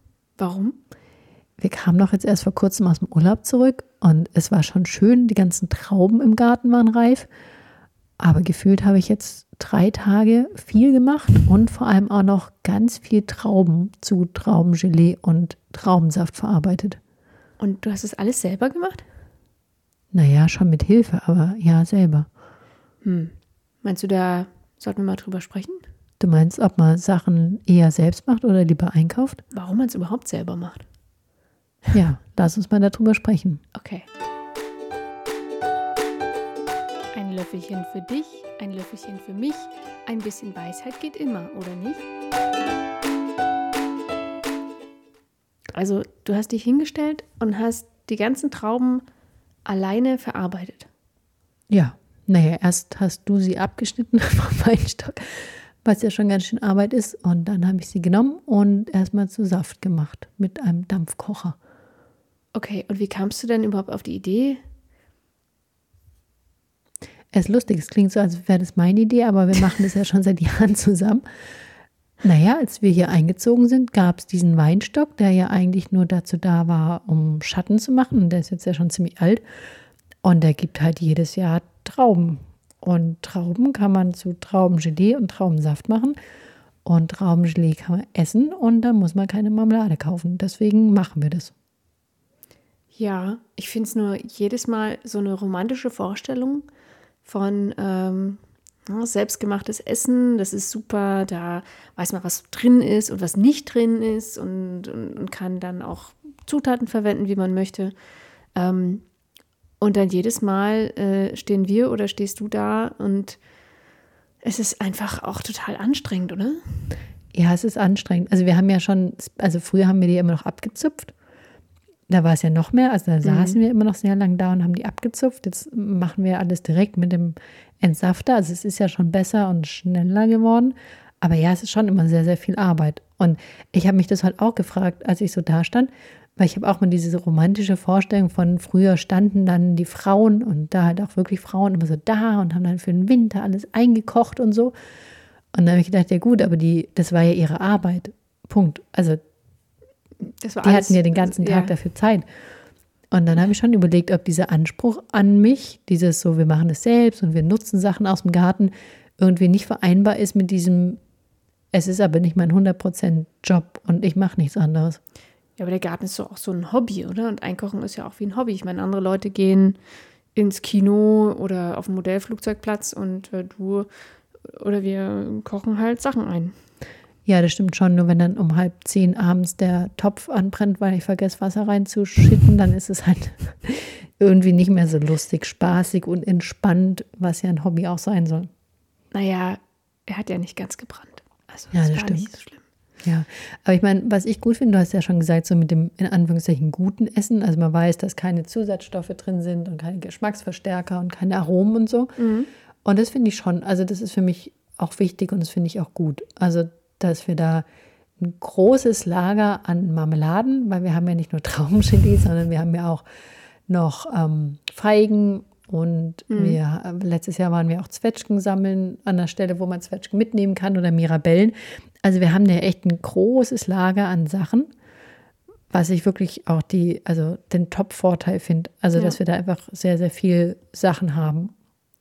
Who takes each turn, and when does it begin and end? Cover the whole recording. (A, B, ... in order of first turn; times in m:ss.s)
0:00.4-0:00.8 A
0:01.6-0:07.3 B
0:08.2-0:17.0 B
0:17.6-0:19.0 A
0:20.1-0:22.3 B
0:23.0-0:25.8 A
0:26.2-0:29.4 B
0:29.5-0:30.8 A
0:31.9-0:33.6 B
0:33.7-0:34.1 A
0:37.1-0:42.0 A
0:45.7-0:49.0 A
0:49.6-0:50.9 A
0:51.7-1:01.6 B
1:02.5-1:04.6 A
1:07.3-1:11.2 B
1:12.2-1:19.4 B
1:20.2-1:26.2 B
1:26.8-1:31.5 B
1:32.9-1:36.6 A
1:37.2-1:47.9 A
1:48.5-1:49.0 A
1:49.8-1:53.4 A
1:54.4-1:56.6 A
1:57.3-2:01.1 B
2:02.1-2:24.7 B
2:03.2-2:03.6 A
2:25.5-2:29.2 B
2:30.3-2:31.7 A
2:30.6-2:32.2 B
2:33.1-2:41.0 B
2:41.7-2:45.0 B
2:45.6-2:49.8 A
2:50.3-2:53.9 A
2:54.4-2:56.5 A
2:57.2-3:08.5 B
3:09.1-3:12.6 A
3:11.7-3:12.3 B
3:13.0-3:22.1 B
3:22.2-3:22.5 A
3:22.8-3:27.6 B
3:28.2-3:33.0 B
3:33.7-3:44.7 B
3:36.3-3:36.6 A
3:45.7-3:51.5 B